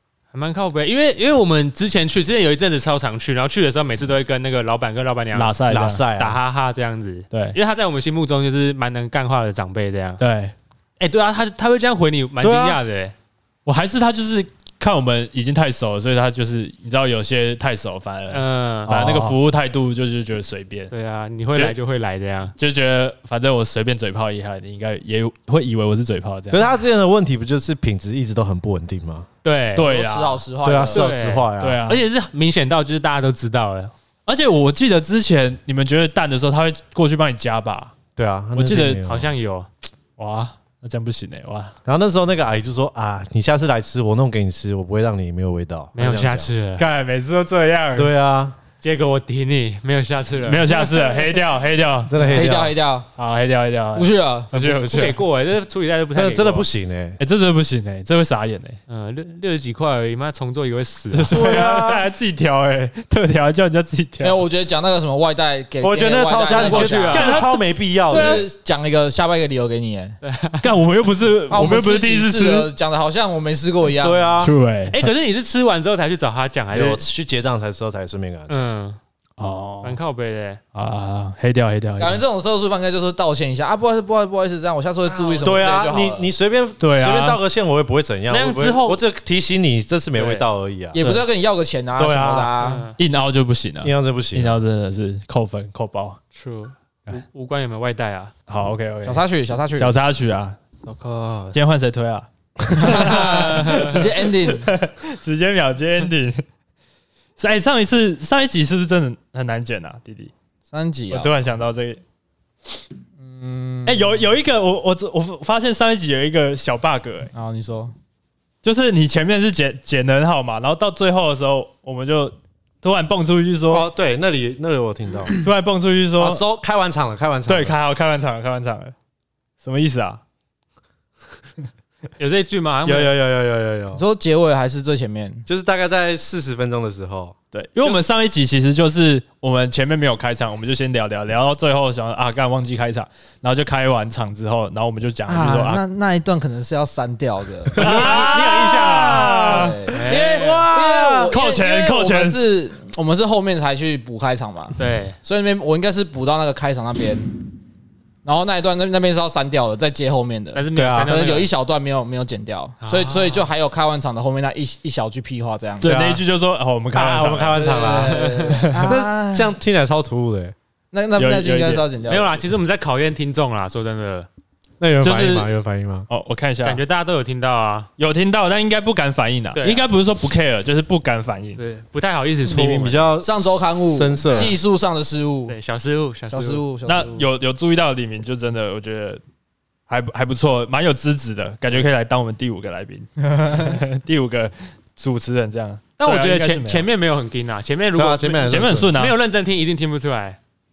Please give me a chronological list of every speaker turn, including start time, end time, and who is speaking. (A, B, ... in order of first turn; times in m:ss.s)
0:00.3-0:05.6 A
0:05.3-0:06.0 B
0:05.7-0:06.4 C
0:06.1-0:10.2 A
0:10.2-0:10.5 B
0:11.0-0:13.1 A
0:12.4-0:12.8 C
0:13.6-0:20.9 B
0:18.3-0:19.4 A
0:20.9-0:22.5 A
0:22.6-0:26.6 B
0:26.5-0:29.3 C
0:29.4-0:29.9 A
0:29.7-0:30.4 B
0:29.8-0:31.1 D
0:30.6-0:31.8 C
0:30.9-0:33.9 A
0:31.6-0:32.0 B
0:34.2-0:37.9 B
0:38.2-0:39.2 C
0:38.6-0:39.2 B
0:39.0-0:39.7 A
0:40.2-0:41.7 B
0:41.8-0:46.5 C
0:45.9-0:46.8 A
0:46.8-0:48.1 B
0:47.9-0:48.6 C
0:48.8-0:50.7 A
0:50.4-0:55.2 B
0:52.1-0:52.7 C
0:52.3-0:53.1 D
0:53.9-0:54.5 D
0:54.5-0:56.7 A
0:56.1-0:57.2 C
0:57.2-0:58.8 B
0:58.9-1:01.4 A
1:01.1-1:04.4 B
1:01.2-1:02.0 C
1:04.2-1:07.4 D
1:05.8-1:08.4 C
1:06.5-1:07.5 A
1:07.1-1:07.5 B
1:08.1-1:10.2 D
1:10.2-1:10.8 A
1:10.6-1:12.7 B
1:11.5-1:14.4 D
1:14.0-1:14.5 C
1:14.4-1:15.1 B
1:14.9-1:17.0 A
1:16.7-1:18.6 C
1:18.5-1:19.0 A
1:19.4-1:20.0 B
1:19.8-1:20.6 A
1:20.7-1:22.2 B
1:22.0-1:26.3 D
1:25.1-1:25.5 A
1:25.4-1:31.0 C
1:26.8-1:27.4 B
1:28.3-1:29.0 A
1:30.1-1:30.5 A
1:30.9-1:32.8 D
1:31.0-1:31.2 B
1:32.0-1:32.5 C
1:32.6-1:33.0 A
1:33.0-1:36.2 B
1:33.8-1:34.6 C
1:36.3-1:38.3 A
1:38.5-1:39.2 B
1:39.0-1:39.9 D
1:39.8-1:40.6 B
1:40.8-1:41.5 A
1:41.5-1:46.4 B
1:42.8-1:44.7 D
1:42.9-1:43.9 A
1:47.4-1:50.3 B
1:50.7-1:51.3 D
1:51.1-1:52.0 B
1:53.2-1:54.2 D
1:53.8-1:57.3 B
1:57.3-1:57.9 D
1:58.6-2:03.8 B
2:03.7-2:05.3 C
2:05.4-2:06.4 B
2:06.2-2:07.8 C
2:07.5-2:08.9 B
2:09.6-2:10.2 B
2:12.2-2:13.1 A
2:12.8-2:14.0 C
2:13.9-2:15.4 D
2:15.5-2:17.4 C
2:17.5-2:25.8 B
2:25.3-2:28.0 D
2:27.7-2:29.8 B
2:27.8-2:30.7 A
2:28.0-2:29.3 C
2:29.4-2:37.4 D
2:30.3-2:31.3 C
2:31.3-2:32.4 B
2:34.8-2:35.2 A
2:38.2-2:45.9 D
2:40.5-2:41.5 A
2:40.7-2:41.1 C
2:42.8-2:43.4 A
2:45.8-2:47.7 B
2:45.8-2:46.2 C
2:46.9-2:50.5 C
2:47.5-2:49.5 D
2:47.9-2:48.6 A
2:48.5-2:48.9 B
2:50.9-2:52.4 D
2:51.2-2:51.8 B
2:52.1-2:54.3 A
2:54.8-2:56.1 C
2:55.0-2:55.5 B
2:56.1-2:56.8 B
2:56.6-2:57.9 A
2:58.0-3:01.6 B
2:59.5-2:59.8 A
3:01.6-3:03.0 A
3:02.4-3:04.6 C
3:03.2-3:05.6 D
3:05.5-3:06.6 A
3:06.3-3:07.3 D
3:06.8-3:09.2 B
3:09.9-3:16.8 B
3:16.0-3:20.4 A
3:17.9-3:19.0 C
3:18.4-3:19.2 B